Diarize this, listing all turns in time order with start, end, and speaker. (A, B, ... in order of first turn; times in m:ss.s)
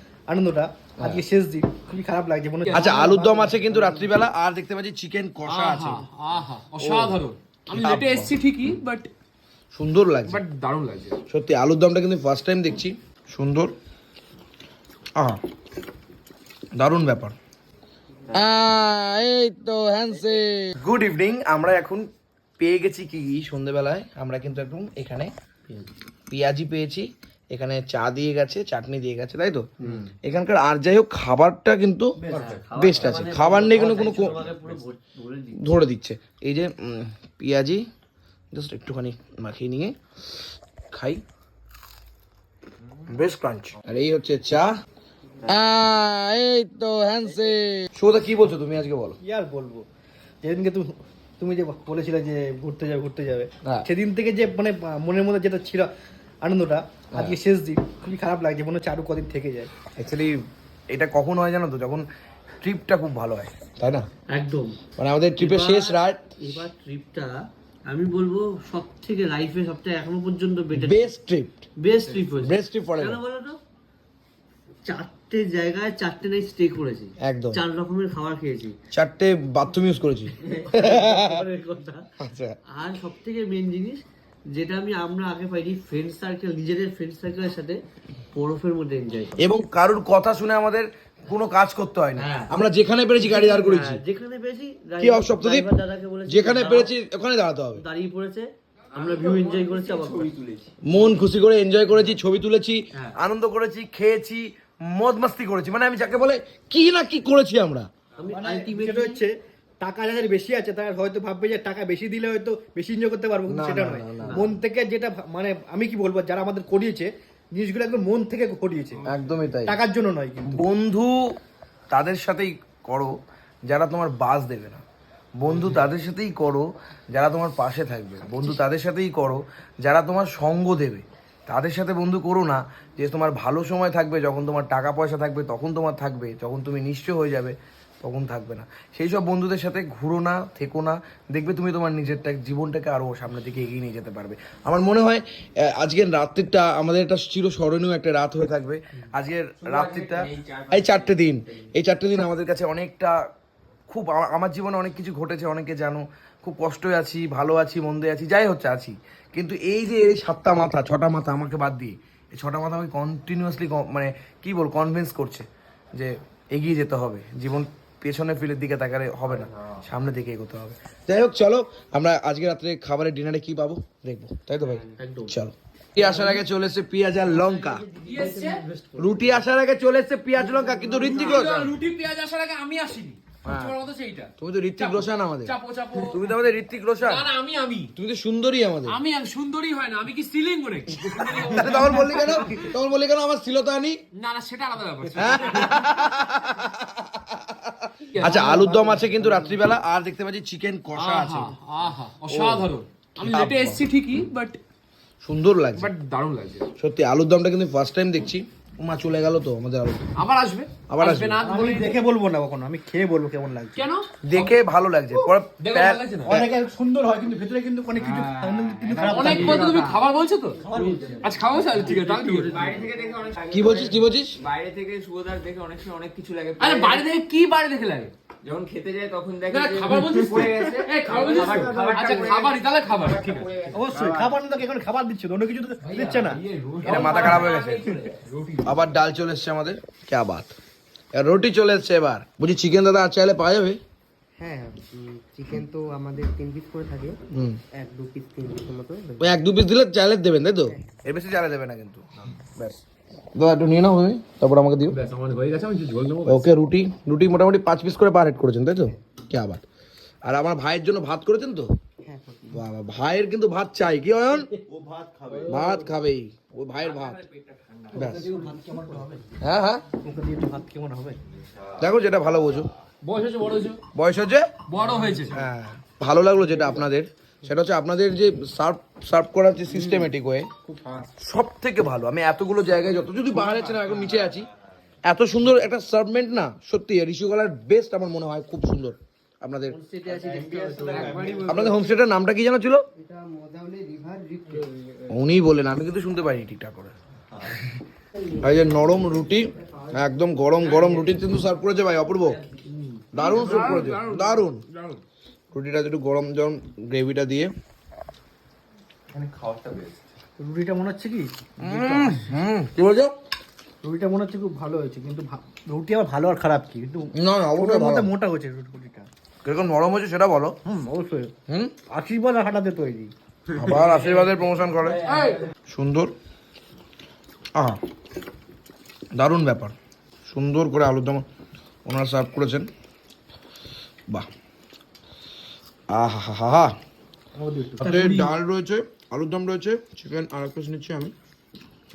0:00.3-0:04.0 A
0:02.7-0:06.1 B
0:05.5-0:09.1 C
0:06.8-0:08.3 B
0:09.7-0:10.4 B
0:10.3-0:11.2 C
0:11.3-0:13.7 B
0:16.8-0:17.4 B
0:18.3-0:22.0 B
0:22.6-0:25.3 B
0:26.3-0:29.7 B
0:29.8-0:30.1 D
0:30.2-0:32.2 B
0:32.2-0:32.6 A
0:32.3-0:35.6 D
0:32.7-0:34.5 B
0:35.6-0:37.8 B
0:38.5-0:40.0 B
0:40.9-0:41.2 B
0:43.0-0:44.7 B
0:45.5-0:49.2 B
0:49.2-0:49.9 A
0:50.4-0:55.9 A
0:56.4-0:59.7 A
1:00.0-1:02.1 B
1:02.6-1:04.1 B
1:04.3-1:04.8 D
1:05.0-1:06.6 B
1:05.4-1:11.1 D
1:10.7-1:11.7 B
1:11.8-1:13.6 D
1:12.3-1:13.2 B
1:14.9-1:18.8 D
1:17.2-1:17.6 B
1:18.9-1:21.4 B
1:20.4-1:22.1 D
1:22.2-1:22.6 B
1:22.8-1:27.8 D
1:28.3-1:29.5 D
1:29.4-1:34.0 B
1:32.2-1:32.5 D
1:33.2-1:36.9 D
1:35.0-1:35.7 B
1:36.3-1:37.8 B
1:37.8-1:40.3 D
1:38.9-1:40.7 E
1:40.8-1:47.9 B
1:48.2-1:49.2 D
1:48.3-1:59.1 A
1:53.5-1:54.5 B
1:59.1-1:59.8 B
1:59.6-2:00.6 A
2:00.5-2:01.4 B
2:01.9-2:03.2 B
2:03.7-2:04.8 B
2:05.4-2:33.2 B
2:29.6-2:31.2 E
2:33.9-2:57.9 B
2:54.9-2:55.4 D
2:57.3-2:59.0 D
2:58.0-2:58.6 C
2:58.1-2:59.2 F
2:59.0-3:01.7 B
3:00.5-3:01.2 F
3:01.0-3:06.3 C
3:03.4-3:03.8 B
3:04.4-3:07.3 B
3:07.0-3:07.9 C
3:08.0-3:09.0 B
3:08.9-3:12.6 C
3:11.1-3:14.0 B
3:14.1-3:15.8 C
3:15.2-3:21.6 B
3:18.1-3:18.9 C
3:21.0-3:24.6 C
3:22.3-3:23.8 B
3:25.2-3:25.9 B
3:25.8-3:26.7 C
3:26.8-3:30.1 B
3:30.2-3:32.0 C
3:30.9-3:31.4 B
3:31.4-3:33.8 A
3:33.8-3:34.6 C
3:34.2-3:36.5 B
3:35.1-3:36.4 C
3:36.3-3:40.0 A
3:38.0-3:39.6 E
3:39.0-3:40.6 C
3:40.6-3:42.8 A
3:40.7-3:41.2 F
3:41.2-3:42.8 C
3:41.9-3:47.1 E
3:42.4-3:42.8 D
3:43.5-3:44.4 B
3:46.6-3:48.1 C
3:48.4-3:54.4 E
3:49.5-3:53.5 C
3:50.4-3:50.7 D
3:51.4-3:52.1 D
3:53.7-3:56.4 A
3:55.9-3:58.7 C
3:56.8-3:57.6 D
3:56.8-3:57.8 B
3:56.9-3:58.2 E
3:58.6-4:00.5 B
4:01.1-4:03.8 B
4:04.4-4:07.2 F
4:07.3-4:07.6 B
4:07.8-4:09.4 F
4:09.2-4:12.8 B
4:10.7-4:10.9 F
4:13.4-4:15.0 B
4:14.9-4:16.4 C
4:16.2-4:19.6 B
4:20.3-4:21.7 B
4:22.0-4:22.6 F
4:22.5-4:24.5 B
4:25.3-4:25.7 C
4:25.5-4:27.2 B
4:27.0-4:28.1 C
4:27.9-4:28.3 B
4:27.9-4:29.2 F
4:28.2-4:29.2 A
4:29.4-4:29.8 B
4:30.0-4:31.2 A
4:31.8-4:32.7 B
4:33.0-4:33.8 C
4:34.0-4:34.5 B
4:34.7-4:35.4 C
4:35.3-4:40.5 B
4:41.2-4:44.5 B
4:45.1-4:49.8 B
4:49.7-4:51.3 D
4:50.1-4:51.5 A
4:50.5-4:51.8 C
4:51.5-4:52.8 B
4:53.0-4:54.7 F
4:55.1-4:56.9 B
4:58.3-5:02.4 B
5:02.7-5:03.8 D
5:03.1-5:04.6 B
5:03.2-5:05.0 C
5:05.5-5:07.5 B
5:09.1-5:10.0 E
5:10.4-5:12.3 A
5:11.6-5:13.2 B
5:13.8-5:19.1 A
5:17.2-5:18.1 B
5:19.4-5:20.6 B
5:20.7-5:21.3 A
5:21.5-5:21.7 B
5:21.9-5:23.1 A
5:23.6-5:25.0 B
5:25.0-5:25.5 C
5:25.7-5:26.1 B
5:29.2-5:31.2 B
5:31.9-5:32.7 B
5:35.9-5:36.7 B
5:37.4-5:38.2 A
5:37.8-5:41.1 B
5:37.8-5:38.3 C